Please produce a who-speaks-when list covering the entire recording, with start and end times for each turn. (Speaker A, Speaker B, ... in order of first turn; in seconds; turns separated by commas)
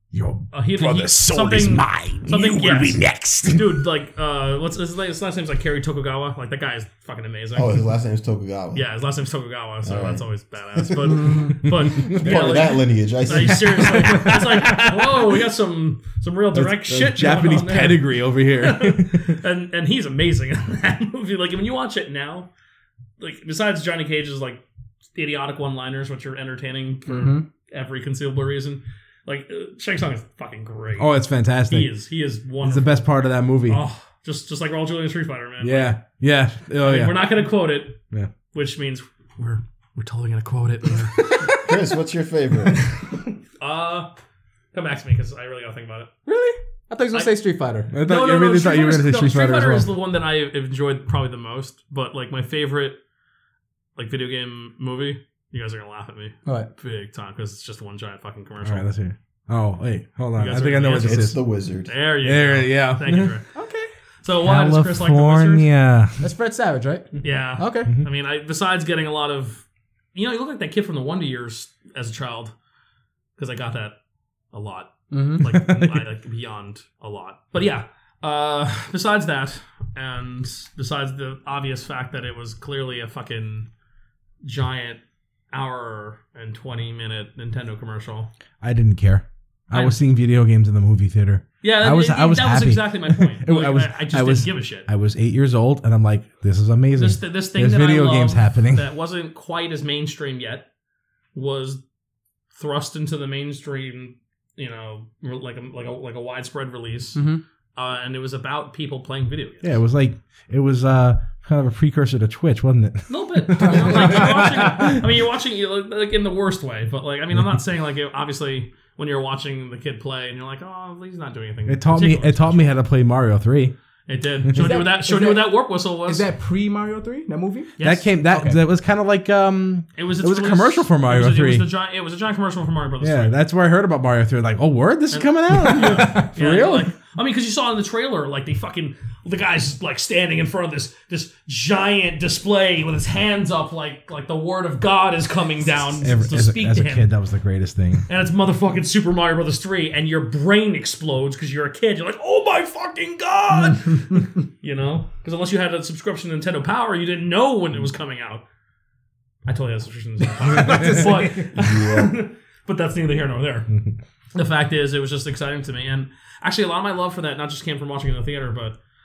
Speaker A: 0.1-3.9, Speaker B: 0.5-7.8, Speaker C: 7.5-8.9, Speaker B: 8.7-22.5, Speaker C: 9.8-14.7, Speaker D: 11.0-11.6, Speaker A: 11.8-12.4, Speaker A: 14.0-14.8, Speaker A: 16.5-19.4, Speaker B: 23.2-24.6, Speaker B: 25.1-31.1, Speaker D: 27.1-27.5, Speaker A: 31.0-31.9, Speaker B: 31.7-33.0, Speaker A: 32.6-33.8, Speaker B: 33.7-36.0, Speaker A: 35.6-37.4, Speaker B: 36.8-38.0, Speaker B: 38.5-41.6, Speaker C: 41.5-42.9, Speaker B: 43.6-44.1, Speaker B: 44.7-46.1, Speaker D: 46.3-47.9, Speaker A: 47.9-49.9, Speaker B: 48.0-53.0, Speaker B: 54.0-58.9, Speaker D: 56.5-56.7, Speaker A: 58.6-61.4, Speaker B: 60.4-63.5, Speaker C: 60.9-61.9, Speaker A: 62.2-63.4, Speaker D: 63.5-63.9, Speaker B: 64.2-65.7, Speaker A: 64.4-66.2, Speaker D: 66.2-67.9, Speaker B: 67.2-69.6, Speaker B: 70.2-72.5, Speaker B: 73.4-74.0, Speaker B: 74.5-83.7, Speaker D: 75.1-75.5, Speaker A: 75.5-76.0, Speaker B: 84.4-85.0, Speaker B: 85.5-88.3, Speaker A: 88.6-98.8, Speaker B: 89.7-90.0, Speaker B: 91.6-94.9, Speaker B: 96.9-100.7, Speaker B: 101.3-101.8, Speaker B: 102.5-107.2, Speaker D: 107.2-107.4, Speaker B: 107.8-109.7, Speaker A: 109.6-115.0, Speaker B: 113.1-122.8, Speaker A: 121.7-123.7, Speaker B: 124.1-126.2, Speaker D: 124.5-125.5, Speaker D: 126.0-127.8, Speaker B: 127.8-128.1, Speaker A: 127.8-131.7, Speaker D: 128.3-128.6, Speaker B: 130.0-133.4, Speaker A: 133.0-136.9, Speaker B: 135.1-147.1, Speaker D: 135.8-136.3, Speaker A: 146.0-148.1, Speaker B: 148.1-158.4, Speaker B: 159.4-163.7, Speaker D: 160.4-161.5, Speaker C: 161.6-162.1, Speaker A: 163.7-164.0, Speaker B: 164.3-168.8